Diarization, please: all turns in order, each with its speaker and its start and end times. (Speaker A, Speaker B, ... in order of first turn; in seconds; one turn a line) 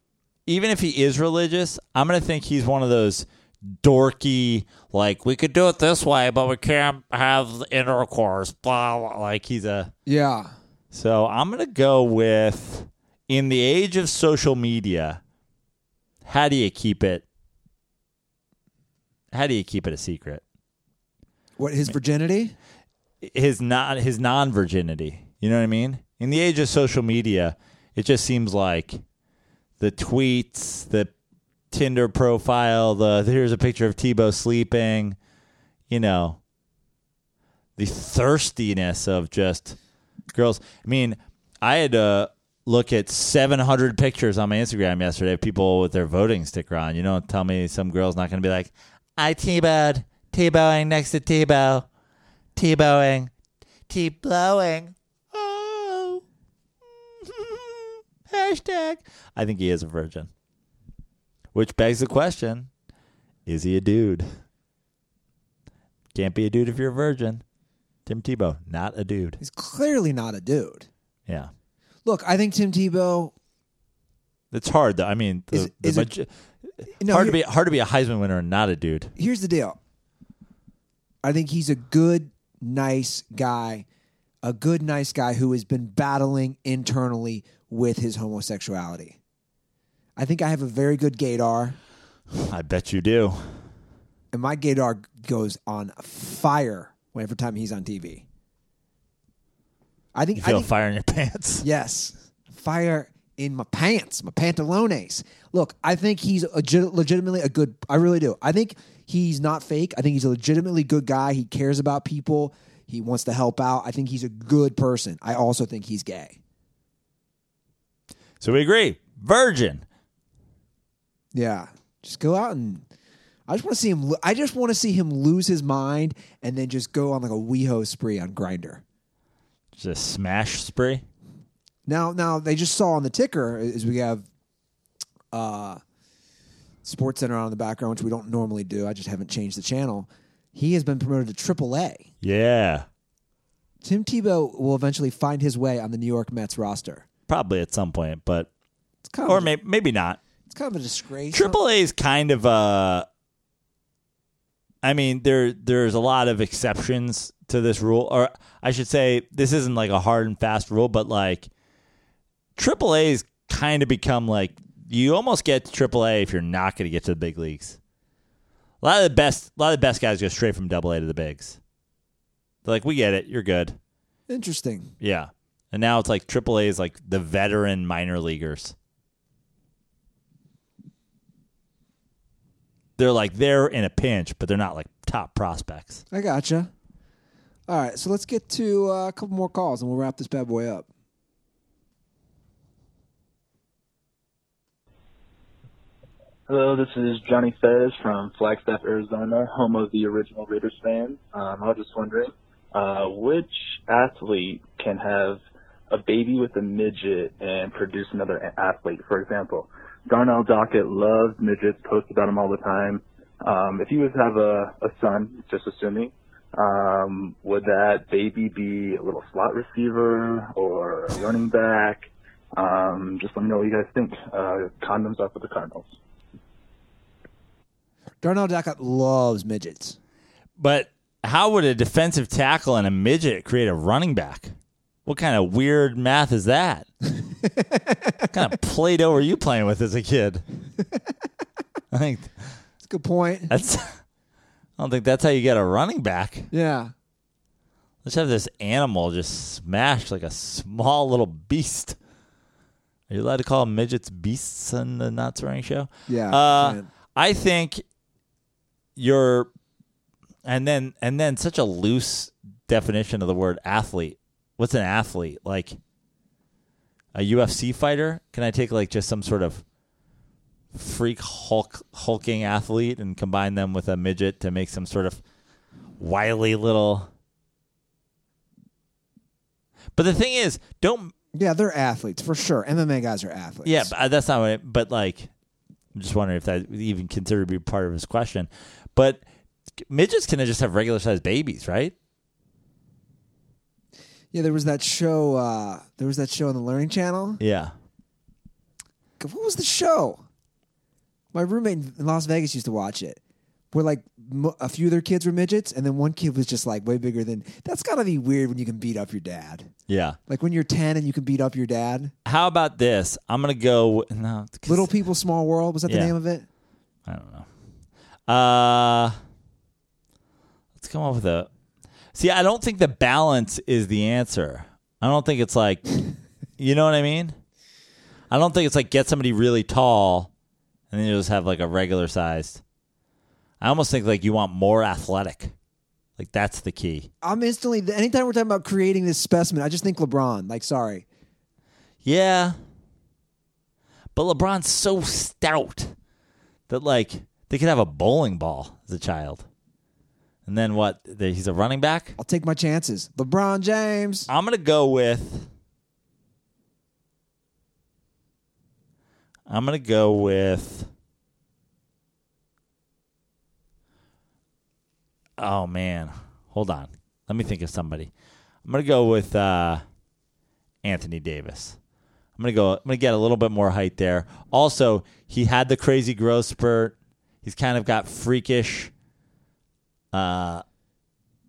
Speaker A: 0.5-3.3
Speaker A: 3.8-9.9
Speaker B: 10.1-10.5
Speaker A: 10.9-15.2
Speaker A: 16.2-17.2
Speaker A: 19.3-20.4
Speaker B: 21.6-22.6
Speaker A: 23.2-29.0
Speaker A: 29.8-31.1
Speaker A: 31.7-35.2
Speaker A: 35.9-36.4
Speaker A: 37.8-39.8
Speaker A: 40.3-51.9
Speaker A: 52.6-53.3
Speaker A: 53.9-56.2
Speaker A: 57.2-60.3
Speaker A: 61.5-62.7
Speaker A: 63.5-64.3
Speaker A: 66.1-67.4
Speaker A: 68.1-69.4
Speaker B: 69.4-70.9
Speaker B: 72.0-73.3
Speaker A: 74.5-76.3
Speaker B: 75.5-76.1
Speaker A: 76.8-79.1
Speaker B: 77.0-77.4
Speaker B: 79.2-79.8
Speaker B: 81.2-83.8
Speaker B: 84.4-89.2
Speaker B: 90.2-91.8
Speaker A: 92.3-93.6
Speaker B: 94.3-98.2
Speaker B: 100.1-100.7
Speaker A: 100.4-101.6
Speaker B: 101.6-116.4
Speaker A: 118.4-119.8
Speaker B: 121.3-122.8
Speaker B: 123.5-128.8
Speaker A: 129.7-131.1
Speaker B: 131.9-134.3
Speaker B: 135.3-135.8
Speaker B: 136.8-142.1
Speaker A: 142.2-142.8
Speaker B: 143.8-147.1
Speaker A: 147.3-148.5
Speaker B: 149.1-149.5
Speaker A: 149.3-150.2
Speaker B: 150.4-151.6
Speaker A: 151.3-153.1
Speaker A: 154.8-161.5
Speaker A: 162.6-167.8
Speaker A: 168.8-171.6
Speaker A: 172.6-173.8
Speaker B: 174.3-174.9
Speaker A: 175.0-178.7
Speaker A: 183.0-186.0
Speaker B: 186.1-186.7
Speaker B: 187.7-190.9
Speaker C: 196.5-225.9
Speaker B: 228.2-230.0
Speaker A: 230.6-234.6
Speaker A: 235.1-236.9
Speaker B: 237.4-238.3
Speaker A: 238.3-240.4
Speaker A: 241.9-242.3
Speaker B: 242.8-243.5
Speaker A: 243.5-244.0
Speaker A: 244.8-246.5
Speaker B: 246.5-246.9
Speaker A: 248.0-252.0
Speaker A: 253.1-257.8
Speaker B: 256.1-256.9
Speaker A: 259.0-259.5
Speaker A: 260.4-265.8
Speaker A: 267.1-269.6
Speaker A: 270.7-275.2
Speaker A: 276.0-277.1
Speaker A: 279.9-281.1
Speaker B: 281.3-283.9
Speaker A: 283.6-285.3
Speaker A: 285.9-289.2
Speaker A: 289.9-291.9
Speaker B: 294.3-297.4
Speaker A: 297.4-297.7
Speaker B: 299.2-300.2
Speaker B: 301.3-303.2
Speaker B: 303.7-309.7
Speaker A: 309.9-310.2
Speaker B: 310.3-312.1
Speaker A: 312.3-314.9
Speaker B: 314.7-316.4
Speaker A: 315.9-316.1
Speaker A: 317.1-317.5
Speaker A: 318.3-319.1
Speaker A: 320.8-321.5
Speaker A: 322.1-325.9
Speaker A: 326.6-327.4
Speaker A: 328.3-330.3
Speaker A: 330.9-332.6
Speaker A: 333.6-335.5
Speaker A: 336.2-337.1
Speaker B: 337.2-341.1
Speaker A: 342.1-342.6
Speaker A: 344.1-345.9
Speaker A: 346.7-349.4
Speaker A: 350.4-352.2
Speaker B: 352.2-354.3
Speaker A: 354.3-355.5
Speaker A: 359.5-360.9
Speaker A: 365.4-368.1
Speaker A: 368.6-369.8
Speaker A: 370.8-371.8
Speaker A: 372.4-378.9
Speaker A: 380.1-380.6